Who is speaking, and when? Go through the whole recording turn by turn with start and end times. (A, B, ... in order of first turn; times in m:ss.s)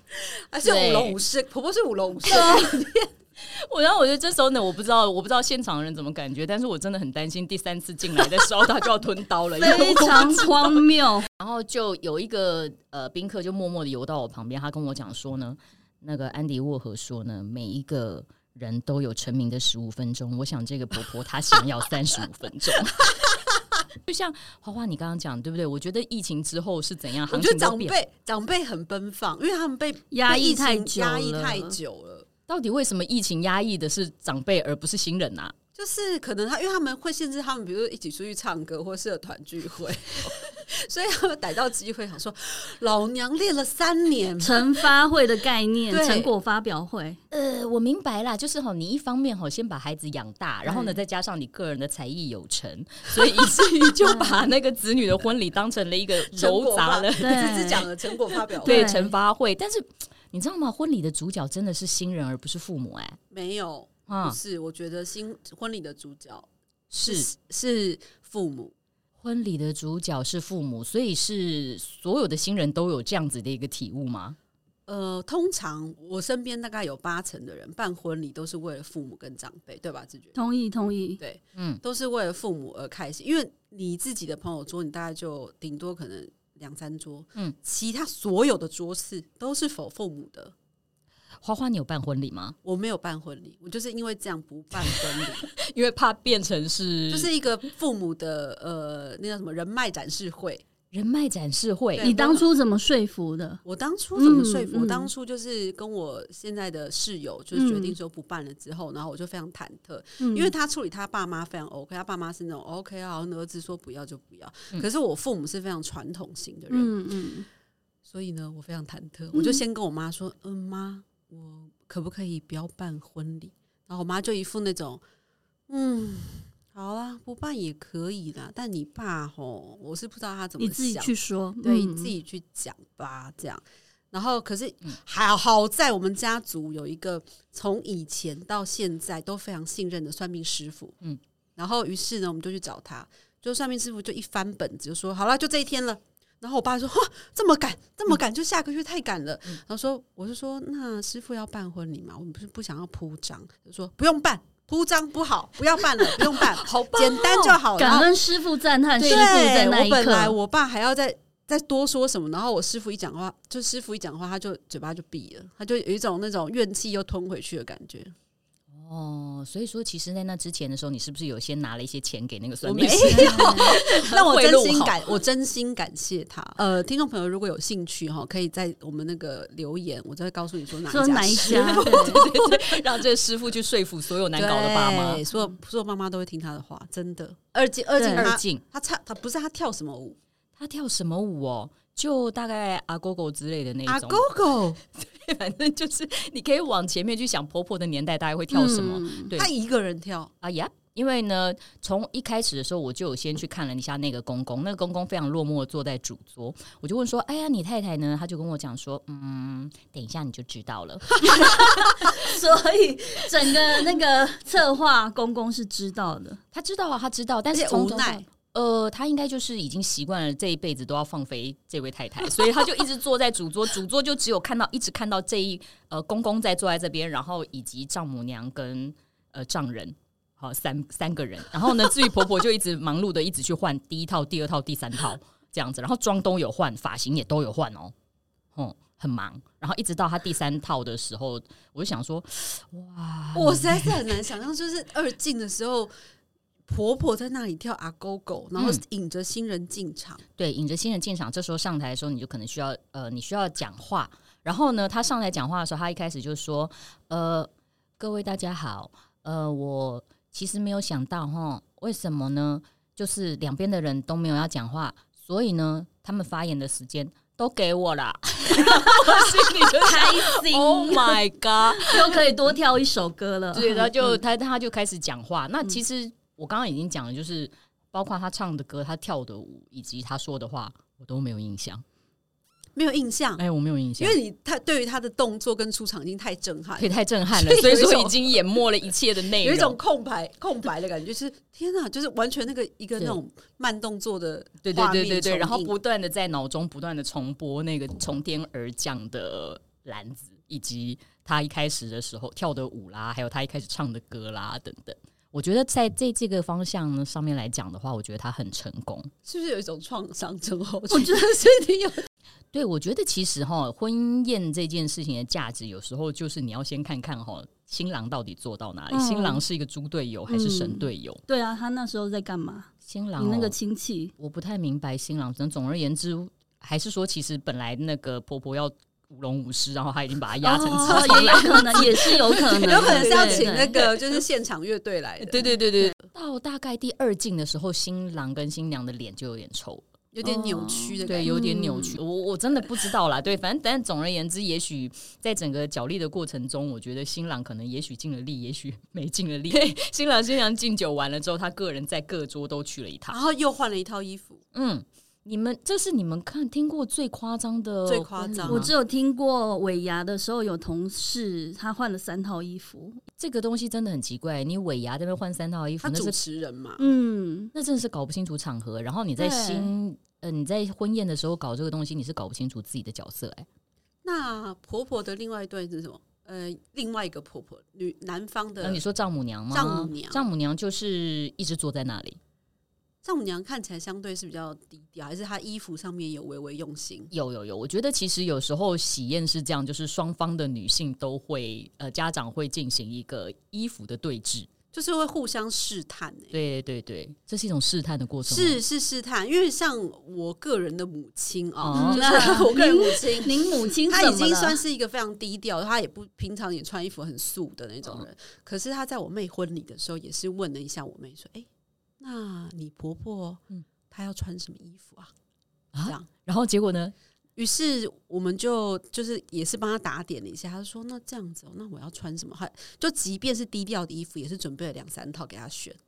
0:00.5-0:03.1 A
0:00.6-0:01.2 B
0:02.3-0:02.7 C
0:03.4-0:10.8 B
0:09.6-0:11.3 C
0:11.4-0:23.1 B
0:24.0-0:28.0 B
0:27.3-0:32.3 A
0:30.1-0:31.7 C
0:32.5-0:35.5 B
0:35.8-0:44.8 A
0:44.4-0:47.2 C
0:45.9-0:46.3 A
0:47.3-0:57.4 B
0:54.0-0:54.4 C
0:56.3-0:59.1 A
0:57.2-0:57.9 C
0:58.6-0:59.1 C
0:58.6-1:03.2 B
1:03.3-1:06.5 A
1:04.1-1:04.4 B
1:06.9-1:07.3 B
1:07.0-1:08.7 A
1:09.2-1:14.4 B
1:14.9-1:20.3 A
1:20.3-1:21.2 C
1:21.2-1:30.5 A
1:21.5-1:21.8 B
1:31.4-1:32.6 B
1:32.6-1:35.5 A
1:35.5-1:37.3 B
1:37.1-1:40.6 A
1:40.9-1:42.1 B
1:41.9-1:42.5 A
1:42.0-1:43.6 C
1:43.6-1:56.9 A
1:44.2-1:45.1 C
1:47.5-1:48.0 C
1:50.2-1:50.5 C
1:56.7-1:57.5 C
1:58.0-2:05.0 A
1:59.3-1:59.6 C
2:05.7-2:21.0 A
2:10.6-2:12.1 C
2:21.6-2:38.1 A
2:36.2-2:37.6 B
2:37.8-2:40.4 C
2:39.0-2:48.1 A
2:48.7-2:55.0 B
2:52.6-3:02.8 A
2:53.0-2:53.7 C
3:00.9-3:02.3 C
3:01.4-3:05.2 B
3:04.3-3:10.2 A
3:08.0-3:08.3 C
3:08.1-3:08.6 B
3:10.6-3:14.3 B
3:13.8-3:14.8 A
3:14.9-3:19.5 B
3:18.5-3:19.3 C
3:19.3-3:20.3 A
3:20.4-3:31.7 B
3:31.3-3:36.4 C
3:36.5-3:57.9 B
3:37.5-3:38.2 A
3:58.5-4:04.0 B
4:03.3-4:05.9 A
4:06.7-4:10.2 A
4:08.6-4:08.8 B
4:10.4-4:32.2 B
4:28.8-4:31.2 C
4:31.7-4:34.2 C
4:33.5-4:41.8 B
4:42.7-4:43.4 A
4:43.4-4:44.2 B
4:44.0-4:48.3 A
4:46.8-4:49.8 B
4:49.4-4:55.7 A
4:54.6-5:09.1 B
5:09.2-5:11.9 A
5:10.9-5:11.7 C
5:12.5-5:21.2 B
5:18.9-5:19.4 C
5:20.3-5:24.1 C
5:22.8-5:23.6 B
5:24.2-5:33.9 B
5:30.4-5:33.7 C
5:30.7-5:36.0 A
5:35.2-5:39.8 B
5:40.1-5:41.4 A
5:40.2-5:42.0 C
5:41.0-5:53.2 B
5:53.1-5:54.4 A
5:54.5-5:58.7 B
5:57.8-5:58.7 A
5:58.4-6:03.0 C
6:03.2-6:06.2 B
6:05.8-6:06.8 A
6:06.8-6:07.5 C
6:07.5-6:13.4 B
6:09.2-6:09.7 C
6:14.0-6:18.8 A
6:18.6-6:22.2 B
6:19.5-6:20.2 A
6:23.0-6:27.1 A
6:27.1-6:34.5 B
6:34.7-6:36.3 A
6:36.3-6:38.6 B
6:38.3-6:51.5 A
6:41.6-6:42.1 B
6:41.7-6:44.6 C
6:52.0-6:55.1 A
6:55.7-6:56.9 B
6:57.4-7:05.8 A